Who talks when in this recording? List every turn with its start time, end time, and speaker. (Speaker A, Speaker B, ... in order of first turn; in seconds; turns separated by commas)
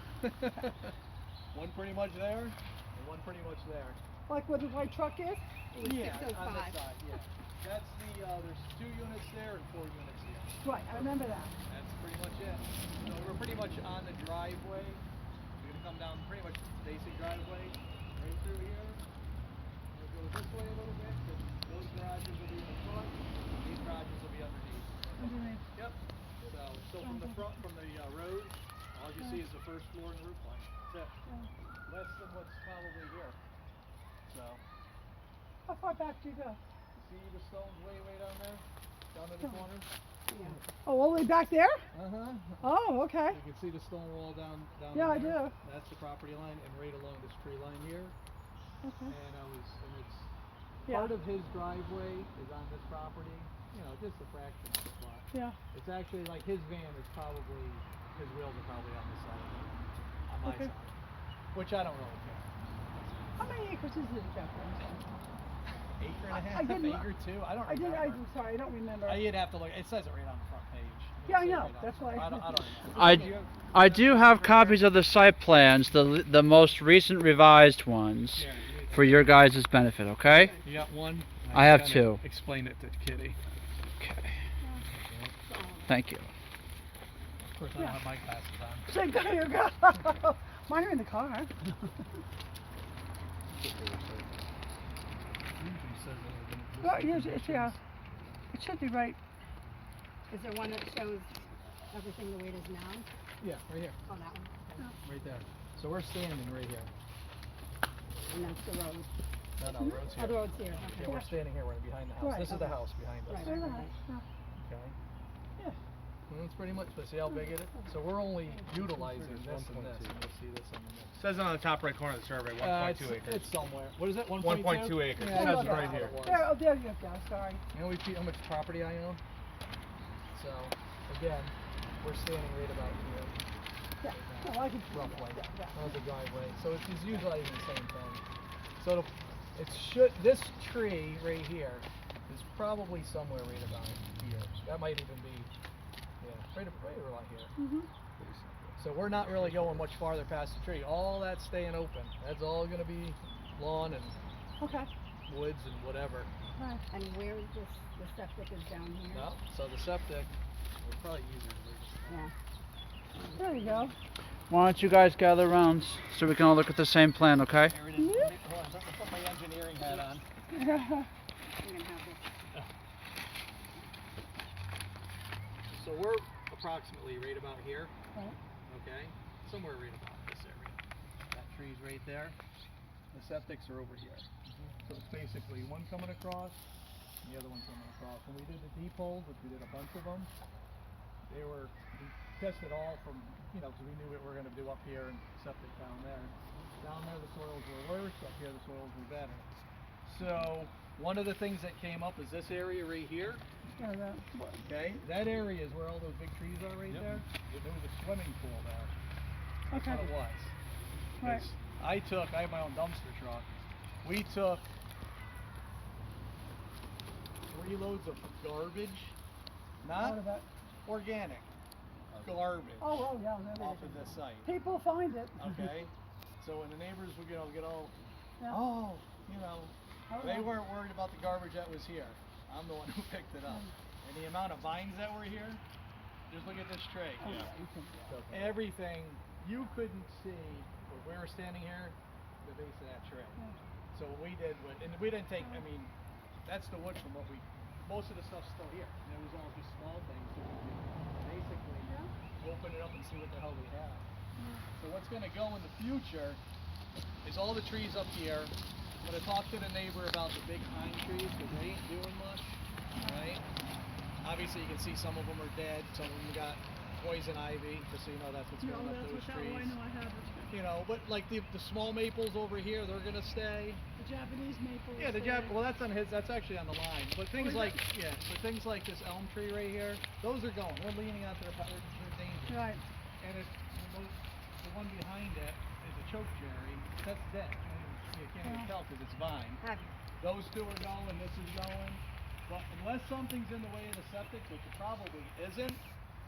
Speaker A: 0.2-0.9, Speaker A: 1.5-4.0, Speaker B: 4.3-5.4, Speaker C: 5.7-7.0, Speaker A: 5.8-15.0, Speaker B: 10.6-11.6, Speaker A: 15.6-19.0, Speaker A: 19.9-31.1, Speaker B: 25.2-25.6, Speaker B: 26.9-27.4, Speaker A: 31.9-33.4, Speaker A: 34.2-34.6, Speaker B: 35.7-36.6, Speaker A: 37.0-39.9, Speaker C: 40.3-40.6, Speaker B: 40.7-41.8, Speaker A: 41.9-48.1, Speaker B: 42.6-43.4, Speaker B: 44.9-45.5, Speaker B: 48.8-49.1, Speaker A: 49.1-50.3, Speaker B: 50.9-51.1, Speaker A: 50.9-60.9, Speaker B: 60.4-60.7, Speaker A: 61.5-63.5, Speaker B: 63.4-65.0, Speaker A: 65.9-68.2, Speaker B: 66.3-69.2, Speaker A: 69.0-74.8, Speaker B: 71.2-73.1, Speaker D: 72.9-80.5, Speaker A: 78.3-79.3, Speaker C: 80.3-80.6, Speaker A: 80.6-83.4, Speaker D: 81.5-82.2, Speaker D: 84.0-84.4, Speaker C: 85.4-85.9, Speaker D: 85.9-86.3, Speaker A: 87.4-88.9, Speaker B: 88.9-91.5, Speaker A: 95.5-97.8, Speaker B: 96.8-97.8, Speaker B: 98.5-99.2, Speaker C: 100.3-101.3, Speaker C: 101.9-103.1, Speaker A: 103.4-104.0, Speaker C: 104.0-104.9, Speaker A: 105.0-106.9, Speaker C: 108.3-109.1, Speaker A: 109.6-113.7, Speaker B: 109.7-110.2, Speaker C: 110.0-111.3, Speaker B: 111.0-111.3, Speaker B: 112.2-112.7, Speaker C: 112.2-113.9, Speaker B: 113.3-114.2, Speaker A: 114.6-115.0, Speaker A: 116.3-121.3, Speaker E: 121.2-123.3, Speaker A: 122.5-126.5, Speaker E: 124.4-126.1, Speaker B: 125.1-127.6, Speaker A: 127.7-129.2, Speaker A: 130.3-133.4, Speaker B: 134.0-135.9, Speaker A: 134.1-138.2, Speaker A: 138.8-145.5, Speaker A: 146.2-147.5, Speaker B: 147.6-147.9, Speaker A: 148.8-154.2, Speaker B: 154.6-154.9, Speaker A: 155.3-156.3, Speaker B: 156.6-156.8, Speaker C: 156.9-159.3, Speaker A: 159.1-162.3, Speaker C: 162.1-162.3, Speaker C: 163.1-163.8, Speaker B: 163.3-163.9, Speaker D: 164.5-167.7, Speaker A: 167.6-170.2, Speaker B: 167.9-168.3, Speaker B: 170.5-171.1, Speaker C: 171.6-172.3, Speaker A: 175.7-177.9, Speaker A: 178.7-180.8, Speaker A: 181.3-182.3, Speaker A: 183.1-184.3, Speaker A: 184.8-186.6, Speaker A: 187.2-190.3, Speaker A: 191.3-199.4, Speaker A: 200.0-203.4, Speaker B: 203.8-204.6, Speaker A: 204.6-209.0, Speaker B: 209.7-210.0, Speaker A: 209.7-210.5, Speaker B: 211.2-211.4, Speaker A: 211.2-213.5, Speaker A: 214.0-214.7, Speaker A: 217.5-219.2, Speaker A: 219.8-220.2, Speaker B: 219.9-220.5, Speaker A: 220.8-221.5, Speaker A: 222.2-223.0, Speaker B: 222.8-225.8, Speaker A: 223.5-224.5, Speaker A: 225.4-227.9, Speaker A: 228.5-235.6, Speaker B: 230.1-230.6, Speaker A: 236.3-237.4, Speaker B: 237.2-238.2, Speaker A: 238.3-243.4, Speaker A: 243.9-245.9, Speaker B: 245.4-245.6, Speaker A: 246.4-254.1, Speaker B: 251.8-252.1, Speaker B: 254.4-254.6, Speaker A: 254.8-256.4, Speaker A: 257.2-263.4, Speaker B: 262.9-263.3, Speaker A: 264.2-269.8, Speaker B: 268.6-270.6, Speaker A: 270.5-273.8, Speaker B: 273.9-275.6, Speaker A: 274.9-282.7, Speaker B: 277.3-277.8, Speaker B: 282.5-282.8, Speaker A: 283.2-289.6, Speaker B: 288.4-288.7, Speaker C: 289.6-289.9, Speaker A: 290.2-295.8